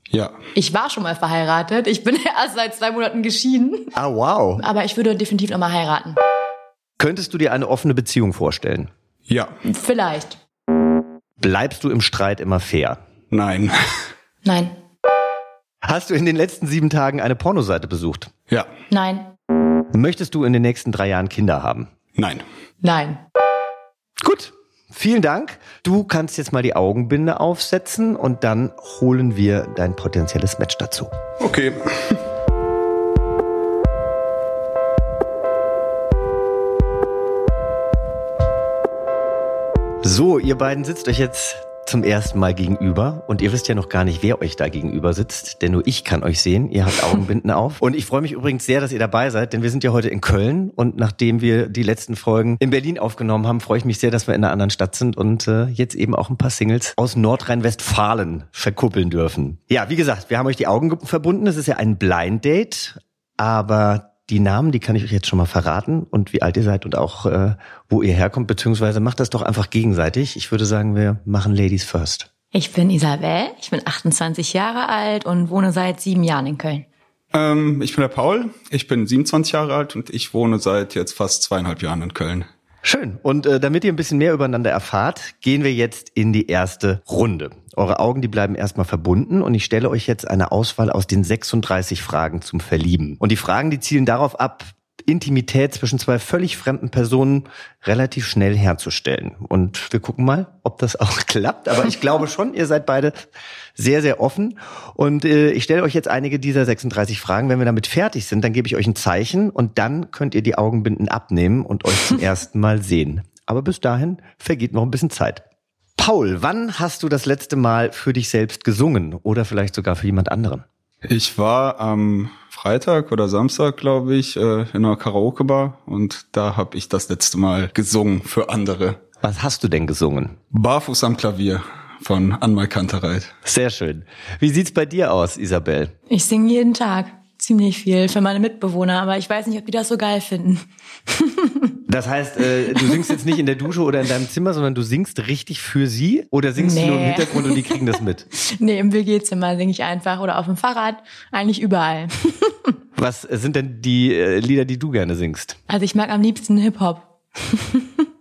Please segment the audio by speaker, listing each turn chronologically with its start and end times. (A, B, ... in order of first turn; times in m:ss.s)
0:00.1-0:00.4 A
0:00.6-0:04.0 B
0:04.0-0:04.6 C
0:04.6-0:06.2 B
0:07.0-0:08.9 C
0:09.3-0:09.6 A
0:09.6-0:10.4 B
0:11.4-0:13.0 C
0:13.3-0:13.8 A
0:14.4-0:14.8 B
0:15.8-0:18.3 C
0:18.9-0:19.3 B
0:19.9-0:21.9 C
0:22.2-0:22.4 A
0:22.8-0:23.2 B
0:24.2-0:31.1 C
0:31.4-0:32.2 A
0:40.0-1:12.3 C
1:12.5-1:16.9 B
1:17.3-1:22.5 A
1:22.8-1:43.2 C
1:43.8-1:55.4 C
1:56.0-2:00.6 C
2:01.0-2:09.0 A
2:09.2-2:10.4 C
2:10.5-2:13.4 A
2:13.4-2:15.9 C
2:16.1-2:21.8 B
2:21.9-2:28.3 C
2:22.7-2:23.0 B
2:26.6-2:27.8 B
2:28.3-2:32.7 B
2:33.0-2:35.6 C
2:35.7-2:38.0 B